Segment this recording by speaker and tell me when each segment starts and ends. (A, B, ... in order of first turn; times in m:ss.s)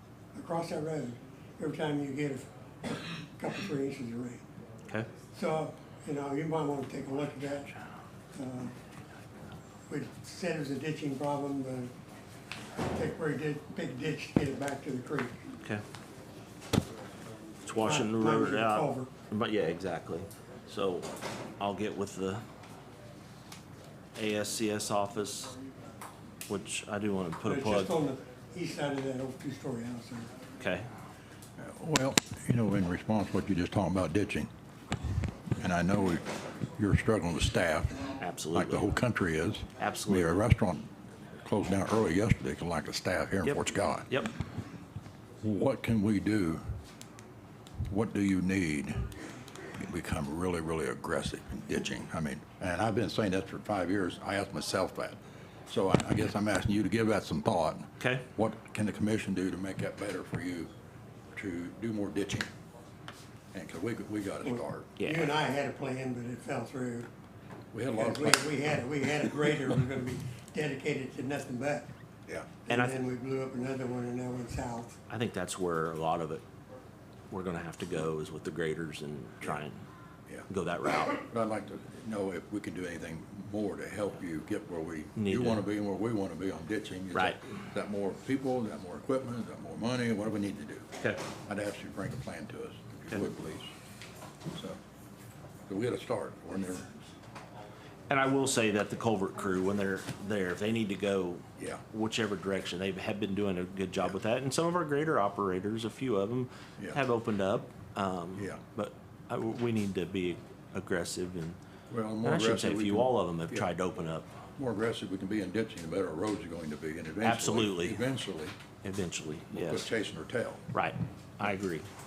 0:00.3-0:04.4 A
0:05.3-0:07.7 A
0:08.3-0:08.7 A
0:09.9-0:11.9 A
0:12.9-0:15.4 A
0:17.6-0:22.4 B
0:17.8-0:19.1 A
0:24.2-0:25.6 B
0:26.5-0:27.9 B
0:27.4-0:30.3 A
0:30.6-0:30.9 B
0:31.6-0:34.5 C
0:35.6-0:44.1 C
0:38.2-0:38.9 B
0:39.8-0:40.4 B
0:43.4-0:44.3 B
0:45.4-0:46.6 C
0:47.9-0:49.0 C
0:49.8-1:00.7 C
0:58.0-0:58.2 B
1:01.3-1:02.5 C
1:03.5-1:04.9 C
1:04.4-1:07.1 A
1:05.0-1:05.3 B
1:07.7-1:08.5 C
1:07.9-1:11.9 A
1:12.7-1:15.0 A
1:12.7-1:13.0 B
1:15.1-1:16.4 B
1:17.3-1:19.8 B
1:20.5-1:21.2 B
1:21.2-1:30.9 C
1:25.2-1:25.6 B
1:27.1-1:27.4 B
1:31.4-1:33.7 C
1:34.5-1:34.8 C
1:35.7-1:36.9 C
1:38.1-1:51.6 B
1:48.4-1:48.6 C
1:51.9-1:53.7 C
1:52.2-1:54.3 B
1:54.6-1:58.5 C
1:57.2-1:58.0 B
1:58.8-1:59.9 B
1:59.5-2:00.6 C
2:00.7-2:01.8 B